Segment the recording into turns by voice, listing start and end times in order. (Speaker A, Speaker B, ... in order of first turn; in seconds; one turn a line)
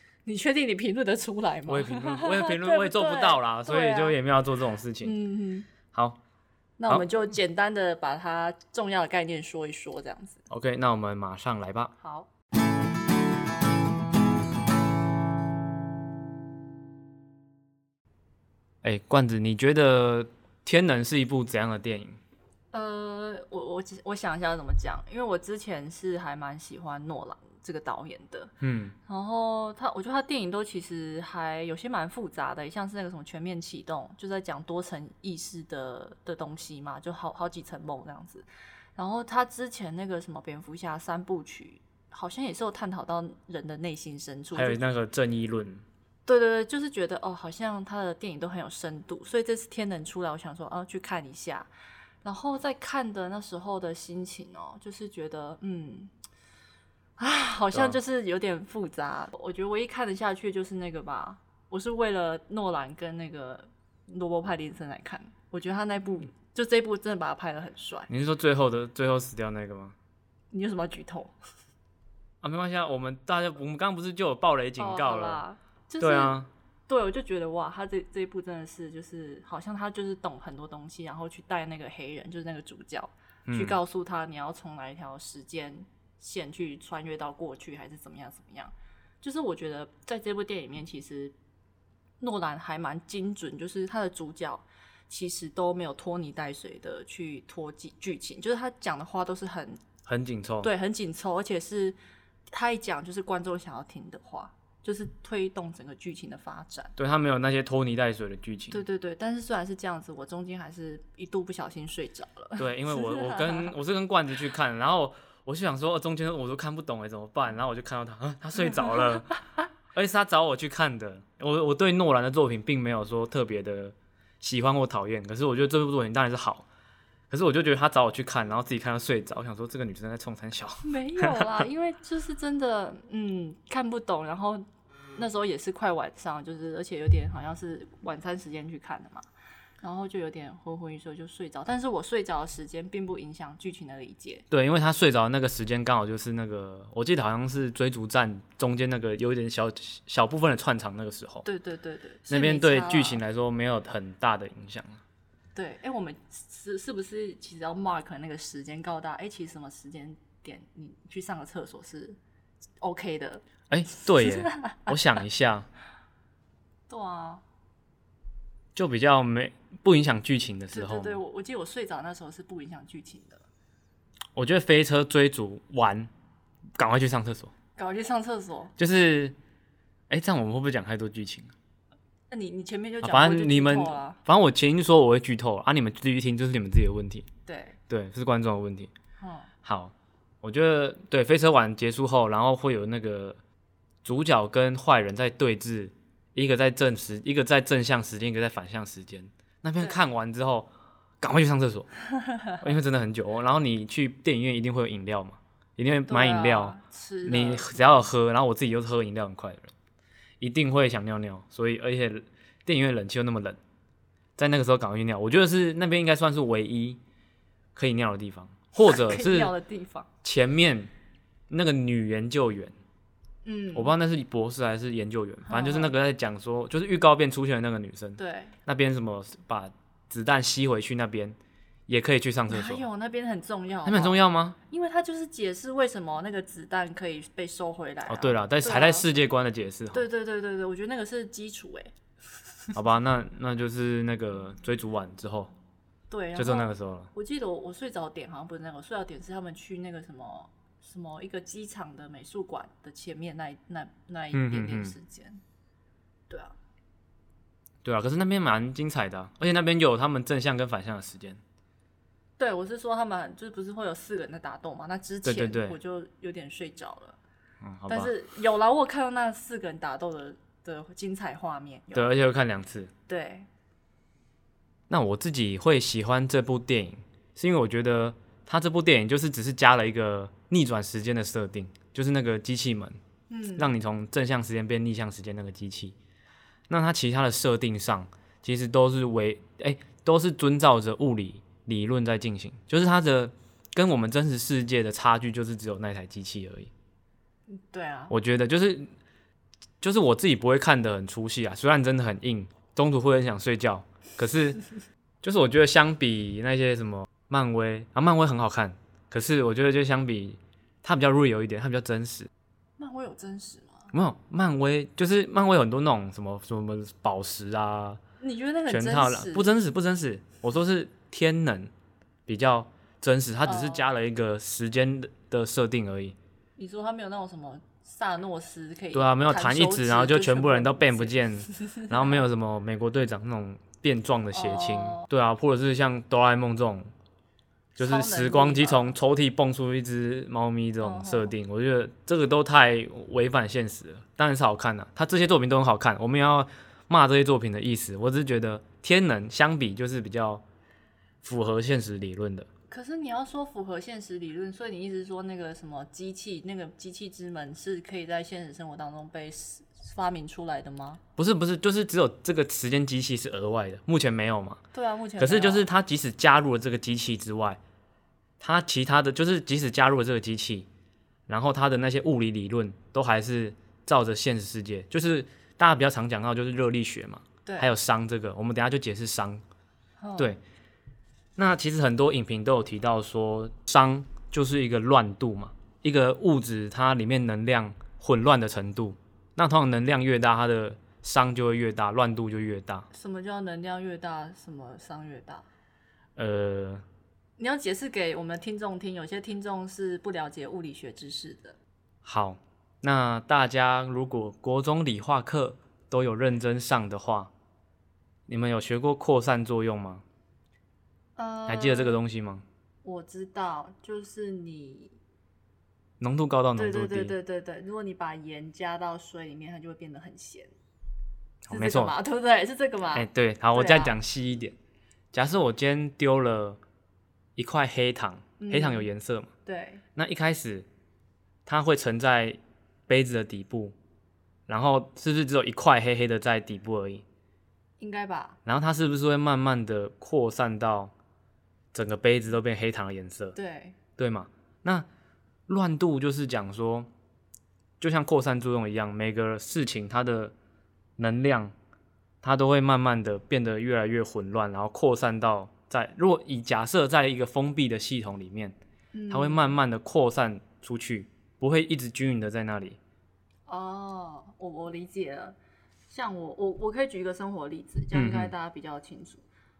Speaker A: 0.2-4.2
Speaker B: 1.7-5.1
Speaker A: 5.0-5.7
Speaker B: 5.9-6.2
Speaker A: 6.8-10.4
Speaker B: 10.5-11.9
Speaker A: 12.0-12.3
Speaker B: 18.8-22.2
Speaker A: 22.7-28.5
Speaker B: 28.6-28.9
Speaker A: 29.1-44.8
Speaker B: 44.5-45.8
Speaker A: 46.2-51.7
Speaker A: 52.2-56.1
Speaker A: 57.2-68.1
Speaker B: 68.1-70.0
Speaker A: 70.5-71.3
Speaker B: 72.4-75.4
Speaker A: 74.8-91.3
Speaker B: 76.0-76.5
Speaker B: 83.5-83.8
Speaker A: 92.2-99.8
Speaker B: 100.0-100.7
Speaker A: 100.6-102.0
Speaker A: 102.5-106.9
Speaker B: 107.0-108.8
Speaker A: 108.7-113.7
Speaker B: 112.6-119.3
Speaker A: 118.7-119.0
Speaker B: 119.9-126.7
Speaker B: 127.3-131.7
Speaker A: 130.8-134.6
Speaker A: 135.2-139.2
Speaker A: 139.8-144.4
Speaker B: 144.5-151.4
Speaker A: 151.4-153.2
Speaker B: 152.3-155.0
Speaker A: 155.5-162.2
Speaker A: 162.8-165.2
Speaker B: 163.7-165.7
Speaker A: 166.9-167.4
Speaker B: 168.7-171.2
Speaker A: 170.7-173.4
Speaker B: 174.3-176.1
Speaker B: 176.8-177.5
Speaker A: 177.8-178.7
Speaker B: 178.8-179.3
Speaker B: 180.1-181.5
Speaker A: 182.3-184.2
Speaker B: 183.0-187.3
Speaker A: 187.4-187.8
Speaker B: 187.9-188.9
Speaker A: 189.2-189.5
Speaker B: 189.6-193.4
Speaker B: 194.0-200.7
Speaker B: 201.2-201.9
Speaker A: 202.2-202.6
Speaker B: 202.6-209.7
Speaker A: 206.1-207.8
Speaker B: 210.4-213.6
Speaker B: 214.4-217.0
Speaker B: 217.7-219.5
Speaker A: 218.8-220.1
Speaker B: 220.2-220.9
Speaker B: 221.5-222.8
Speaker A: 223.4-223.9
Speaker B: 223.7-231.4
Speaker A: 225.4-225.9
Speaker A: 228.2-228.5
Speaker B: 231.9-232.8
Speaker A: 232.5-239.0
Speaker B: 233.8-234.6
Speaker B: 238.1-240.1
Speaker A: 239.9-241.9
Speaker B: 242.7-245.5
Speaker A: 246.1-255.4
Speaker B: 246.3-247.1
Speaker B: 254.3-254.9
Speaker A: 256.3-256.6
Speaker B: 257.8-261.4
Speaker A: 262.4-267.2
Speaker B: 265.2-265.8
Speaker B: 267.6-268.1
Speaker A: 267.9-272.1
Speaker B: 271.9-272.9
Speaker A: 273.1-273.5
Speaker B: 274.9-283.0
Speaker A: 283.3-283.7
Speaker B: 283.6-285.9
Speaker B: 286.7-296.7
Speaker A: 297.5-298.1
Speaker B: 298.1-298.9
Speaker B: 299.8-304.6
Speaker B: 305.2-312.3
Speaker A: 312.8-313.9
Speaker B: 313.9-318.0
Speaker A: 318.2-319.5
Speaker B: 318.7-321.7
Speaker B: 322.3-326.1
Speaker A: 323.4-323.8
Speaker A: 326.6-332.2
Speaker B: 328.9-336.9
Speaker A: 334.3-335.1
Speaker B: 337.8-350.4
Speaker A: 337.8-338.9
Speaker A: 340.8-341.3
Speaker B: 351.2-352.5
Speaker A: 352.7-361.0
Speaker B: 361.2-364.6
Speaker A: 364.7-365.6
Speaker B: 365.2-367.6
Speaker B: 368.4-370.7
Speaker B: 371.3-379.4
Speaker A: 377.4-377.7
Speaker A: 380.0-380.4
Speaker B: 381.4-392.9
Speaker A: 392.9-395.4
Speaker B: 396.1-396.8
Speaker A: 397.4-401.6
Speaker B: 402.0-407.3
Speaker B: 408.3-410.0
Speaker A: 411.2-412.0
Speaker B: 411.5-412.4
Speaker A: 412.8-414.9
Speaker B: 416.0-417.1
Speaker A: 416.6-420.5
Speaker B: 421.5-421.9
Speaker A: 421.5-423.9
Speaker B: 422.9-424.6
Speaker B: 425.1-426.6
Speaker B: 427.4-429.3
Speaker A: 428.4-428.9
Speaker A: 429.4-429.8
Speaker B: 429.9-430.7
Speaker B: 431.4-433.7
Speaker B: 434.5-437.0
Speaker A: 437.8-438.4
Speaker B: 438.4-440.9
Speaker B: 441.7-443.4
Speaker A: 443.4-443.8
Speaker B: 444.0-444.9
Speaker B: 445.5-446.9
Speaker B: 447.8-450.3
Speaker B: 451.0-451.5
Speaker B: 452.2-458.6
Speaker A: 458.9-459.5
Speaker B: 459.1-462.8
Speaker A: 463.5-465.4
Speaker A: 465.9-469.2
Speaker B: 467.9-468.3